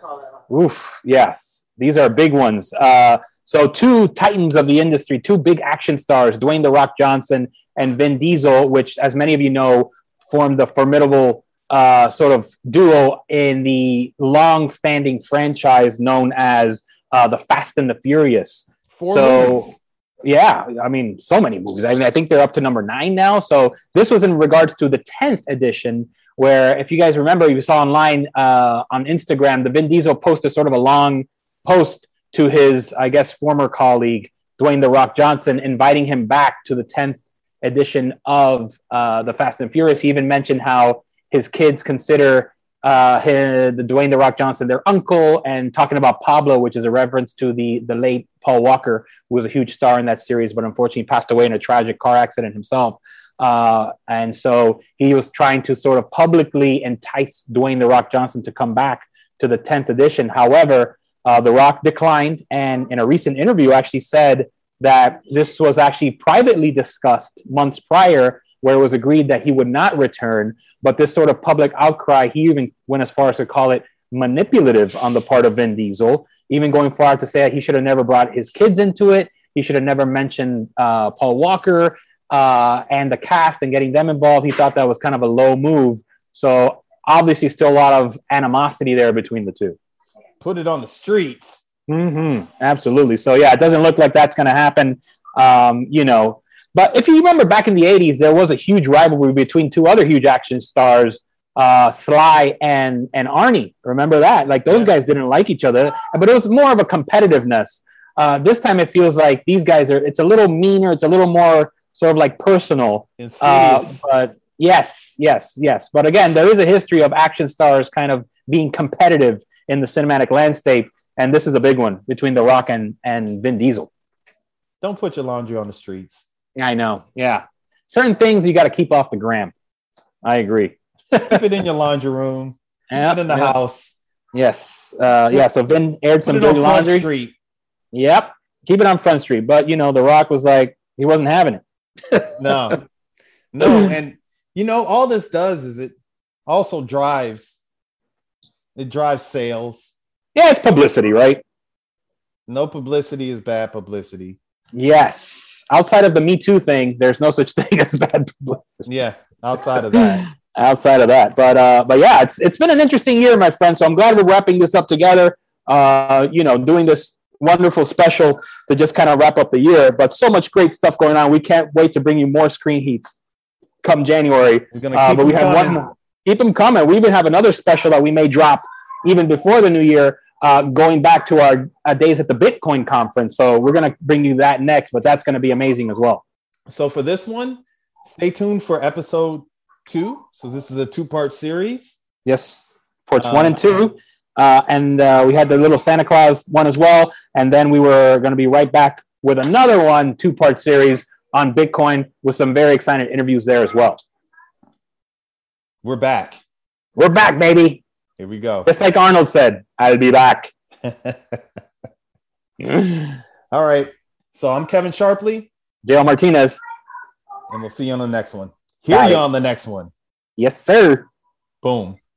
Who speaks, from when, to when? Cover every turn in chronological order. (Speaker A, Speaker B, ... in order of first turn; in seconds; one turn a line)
Speaker A: 0.5-89.8
Speaker B: 18.9-19.8
Speaker B: 90.4-91.6
Speaker A: 91.9-123.9
Speaker B: 113.2-114.0
Speaker B: 124.8-126.2
Speaker A: 126.5-129.5
Speaker A: 130.2-131.4
Speaker B: 131.2-134.0
Speaker A: 132.9-133.6
Speaker A: 134.3-137.1
Speaker B: 136.2-137.3
Speaker A: 137.9-142.8
Speaker B: 142.4-142.8
Speaker B: 143.5-145.9
Speaker A: 143.6-143.9
Speaker B: 146.5-147.6
Speaker B: 148.8-149.9
Speaker A: 150.3-151.4
Speaker B: 152.5-154.4
Speaker A: 154.7-158.8
Speaker B: 158.8-160.2
Speaker A: 159.9-173.2
Speaker A: 173.8-186.2
Speaker B: 174.7-175.8
Speaker B: 186.7-192.0
Speaker A: 192.2-204.0
Speaker B: 193.2-193.6
Speaker B: 205.8-206.4
Speaker A: 206.9-207.8
Speaker B: 208.2-208.7
Speaker A: 208.7-210.5
Speaker B: 210.8-211.4
Speaker A: 212.6-213.2
Speaker B: 213.5-215.5
Speaker A: 215.8-216.6
Speaker B: 217.5-219.9
Speaker A: 218.9-219.2
Speaker A: 220.4-221.1
Speaker B: 221.6-222.0